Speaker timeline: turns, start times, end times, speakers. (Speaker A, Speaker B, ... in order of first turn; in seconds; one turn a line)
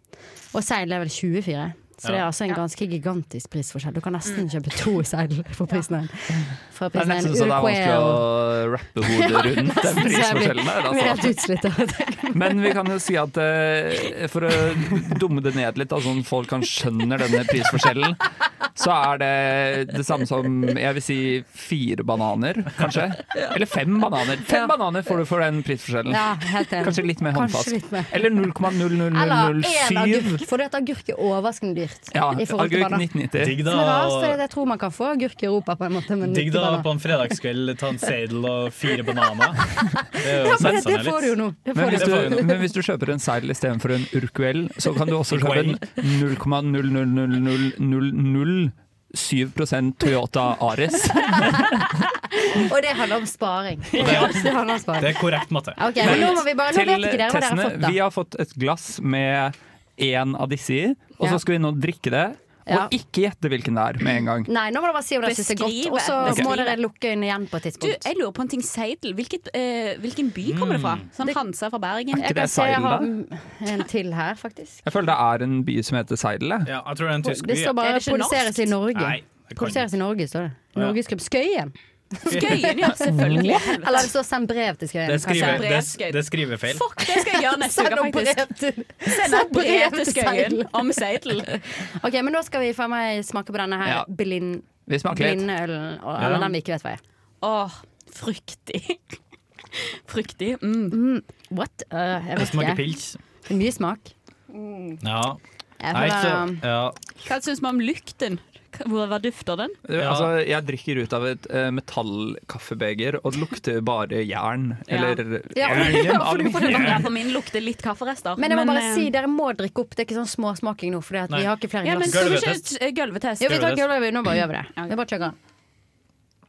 Speaker A: 0.5-8.4
Speaker B: 6.9-11.4
Speaker A: 9.0-12.7
Speaker B: 12.3-30.4
Speaker A: 24.5-24.7
Speaker A: 26.1-28.5
Speaker A: 29.1-33.1
Speaker B: 32.1-33.6
Speaker C: 33.4-34.4
Speaker A: 33.6-36.9
Speaker C: 36.2-39.6
Speaker C: 40.2-42.5
Speaker A: 40.2-42.6
Speaker B: 41.7-51.9
Speaker C: 45.3-45.9
Speaker A: 52.4-58.0
Speaker B: 53.9-54.4
Speaker C: 54.0-54.5
Speaker C: 55.0-56.4
Speaker B: 56.0-64.5
Speaker A: 64.5-68.1
Speaker D: 65.2-66.8
Speaker D: 67.8-72.3
Speaker C: 70.5-71.1
Speaker B: 72.1-73.1
Speaker A: 72.1-74.8
Speaker B: 74.9-76.7
Speaker C: 76.7-77.8
Speaker A: 77.2-85.7
Speaker D: 77.8-78.7
Speaker C: 78.9-79.8
Speaker D: 82.3-84.1
Speaker C: 82.3-82.6
Speaker C: 85.1-86.8
Speaker D: 85.3-88.5
Speaker A: 87.1-97.0
Speaker D: 89.1-91.5
Speaker B: 94.9-95.5
Speaker C: 96.2-96.5
Speaker D: 97.4-99.2
Speaker D: 99.8-101.0
Speaker A: 100.9-102.9
Speaker C: 102.4-103.2
Speaker A: 103.5-104.1
Speaker C: 105.0-105.4
Speaker A: 105.8-106.6
Speaker C: 105.9-107.0
Speaker D: 107.2-109.8
Speaker B: 109.9-117.0
Speaker C: 110.0-110.3
Speaker D: 114.9-115.2
Speaker A: 115.5-117.1
Speaker D: 116.6-119.1
Speaker A: 118.4-122.5
Speaker D: 121.8-123.8
Speaker C: 122.0-122.7
Speaker A: 123.4-125.4
Speaker C: 123.5-123.8